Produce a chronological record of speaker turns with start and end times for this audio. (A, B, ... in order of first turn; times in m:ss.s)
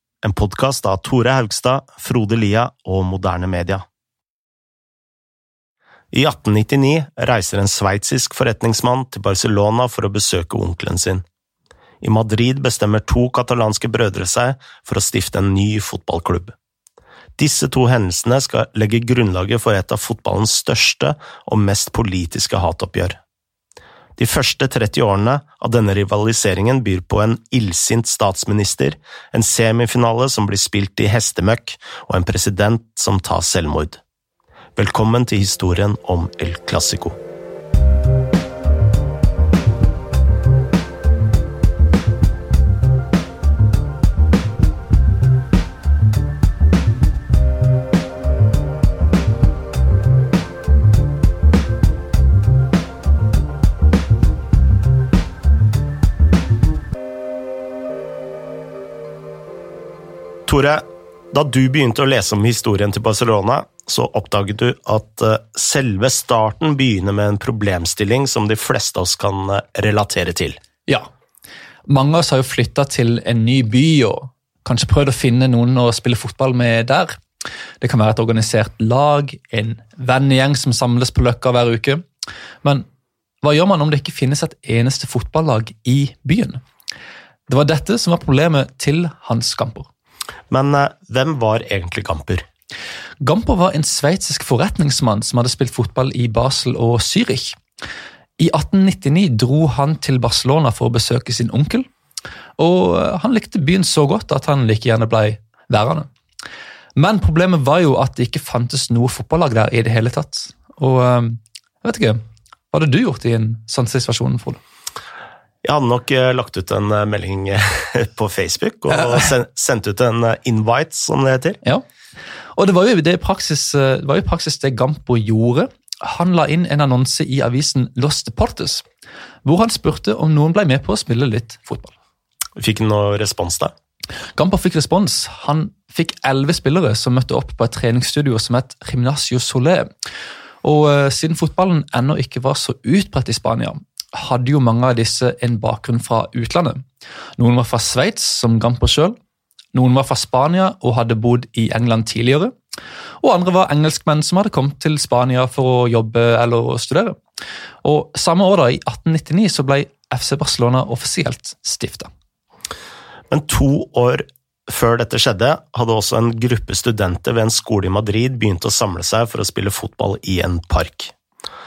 0:00.2-0:03.8 A
0:06.1-0:11.2 A
0:12.0-0:16.5 A
0:17.4-0:23.2 A
0:24.2-0:34.0 A
0:34.8-0:37.2 A
1:00.5-1:10.6 A
1:11.9-1:17.2 B
1:17.8-1:22.0 B
1:23.4-1:26.6 B
1:27.5-1:29.9 B
1:30.5-1:32.4 A
1:33.2-1:37.6 B
1:38.4-1:41.9 B
1:42.6-1:46.1 B
1:47.0-1:52.2 B
1:52.7-1:54.6 B
1:55.6-2:01.6 A
2:02.6-2:08.8 B
2:09.4-2:11.9 B
2:12.6-2:13.7 A
2:14.4-2:19.9 B
2:20.6-2:26.8 B
2:27.4-2:29.2 B
2:29.7-2:32.5 B
2:33.2-2:37.2 B
2:37.8-2:42.1 B
2:43.3-2:51.1 A